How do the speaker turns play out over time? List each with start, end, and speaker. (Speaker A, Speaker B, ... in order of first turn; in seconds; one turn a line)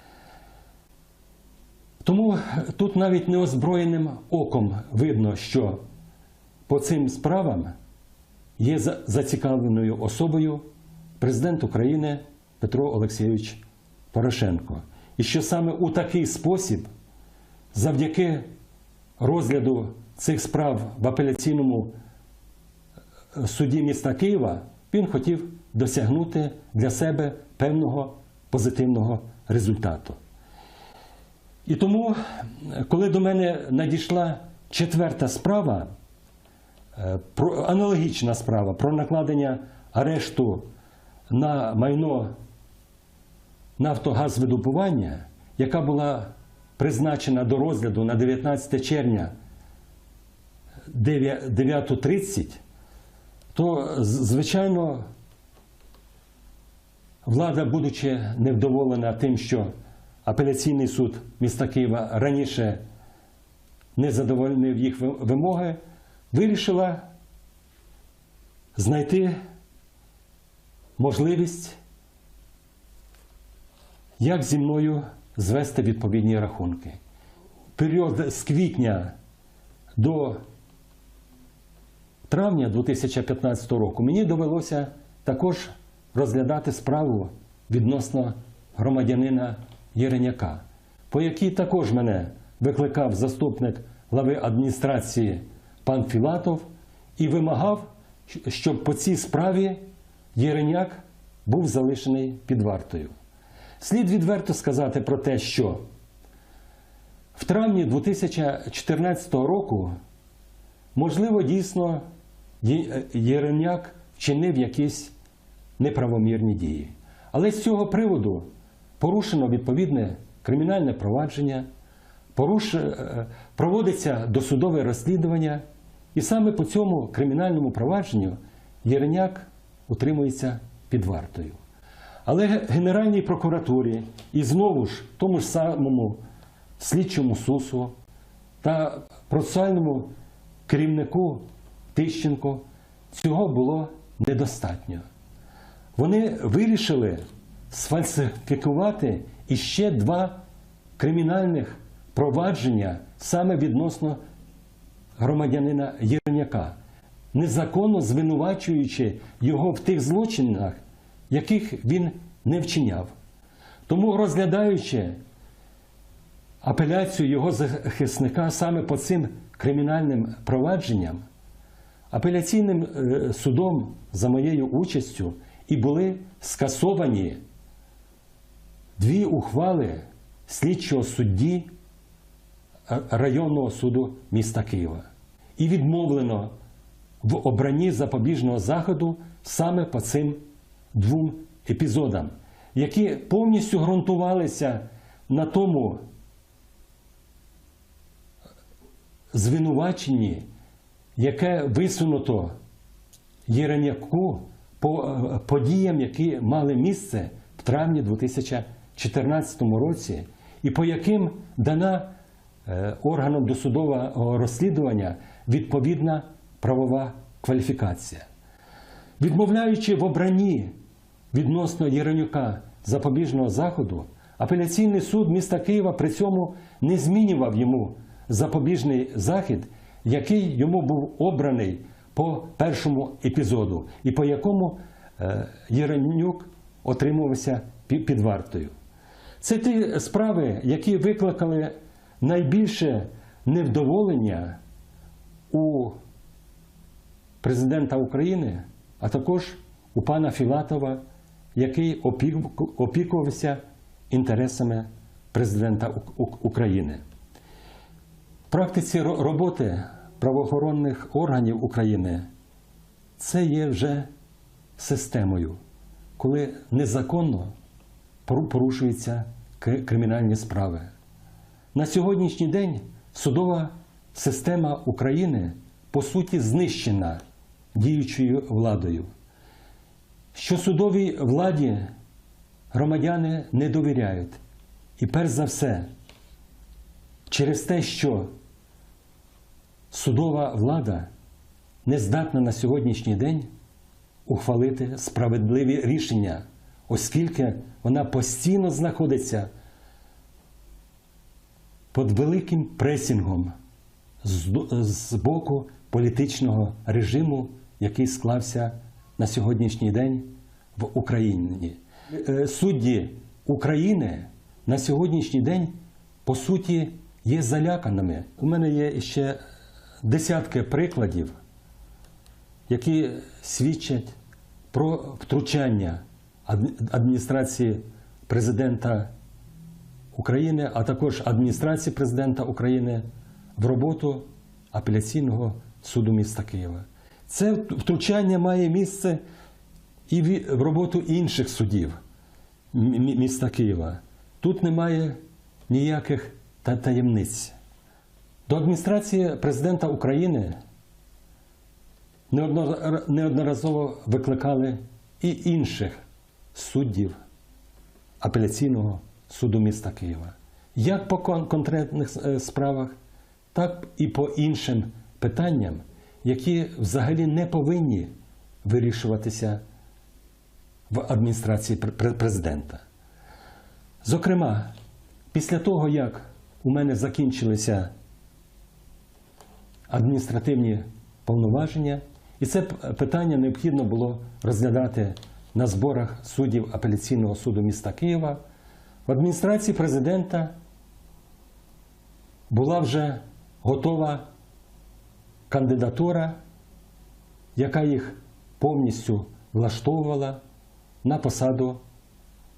Speaker A: 2.0-5.8
Speaker A: 6.7-7.7
Speaker A: 8.6-10.6
Speaker A: 11.2-16.9
Speaker A: 17.7-18.5
Speaker A: 19.2-21.9
Speaker A: 23.3-30.2
Speaker A: 31.6-35.9
Speaker A: 37.0-40.7
Speaker A: 41.3-42.4
Speaker A: 43.8-49.3
Speaker A: 50.9-52.6
Speaker A: 53.5-55.1
Speaker A: 57.2-59.7
Speaker A: 60.2-62.8
Speaker A: 64.0-65.8
Speaker A: 66.3-67.1
Speaker A: 68.8-69.3
Speaker A: 71.0-71.8
Speaker A: 74.2-77.0
Speaker A: 77.8-79.1
Speaker A: 80.0-80.4
Speaker A: 82.3-96.7
Speaker A: 97.2-103.1
Speaker A: 103.8-105.8
Speaker A: 107.3-109.9
Speaker A: 110.9-112.0
Speaker A: 112.6-115.1
Speaker A: 115.8-118.5
Speaker A: 119.0-121.7
Speaker A: 122.3-125.6
Speaker A: 126.1-131.6
Speaker A: 132.2-136.2
Speaker A: 136.8-137.9
Speaker A: 138.6-140.1
Speaker A: 140.7-145.0
Speaker A: 145.9-150.4
Speaker A: 151.0-154.2
Speaker A: 155.2-156.8
Speaker A: 157.3-163.1
Speaker A: 163.9-165.2
Speaker A: 166.6-171.2
Speaker A: 172.1-177.4
Speaker A: 179.0-181.7
Speaker A: 182.9-185.0
Speaker A: 185.6-186.5
Speaker A: 187.2-196.0
Speaker A: 199.3-200.5
Speaker A: 201.2-202.6
Speaker A: 203.5-212.1
Speaker A: 212.7-218.2
Speaker A: 219.2-220.7
Speaker A: 221.3-238.7
Speaker A: 239.4-244.6
Speaker A: 245.5-246.0
Speaker A: 247.4-251.0
Speaker A: 251.6-257.0
Speaker A: 258.5-262.3
Speaker A: 263.2-264.1
Speaker A: 264.8-265.6
Speaker A: 266.2-267.5
Speaker A: 268.2-270.9
Speaker A: 271.7-277.2
Speaker A: 277.7-279.1
Speaker A: 280.3-281.9
Speaker A: 282.7-284.4
Speaker A: 285.0-285.9
Speaker A: 287.3-288.3
Speaker A: 289.9-291.1
Speaker A: 291.8-293.5
Speaker A: 294.2-299.5
Speaker A: 301.9-303.5
Speaker A: 304.2-319.4
Speaker A: 320.0-321.3
Speaker A: 322.7-324.1
Speaker A: 324.7-329.1
Speaker A: 330.1-339.2
Speaker A: 340.1-342.0
Speaker A: 342.7-347.5
Speaker A: 348.5-350.6
Speaker A: 352.3-356.0
Speaker A: 356.5-357.2
Speaker A: 358.2-362.9
Speaker A: 363.5-368.1
Speaker A: 368.6-369.6
Speaker A: 370.9-372.8
Speaker A: 374.0-374.7
Speaker A: 375.3-377.9
Speaker A: 379.9-388.4
Speaker A: 389.1-390.6
Speaker A: 392.5-394.3
Speaker A: 395.5-396.4
Speaker A: 397.6-400.4
Speaker A: 401.0-401.8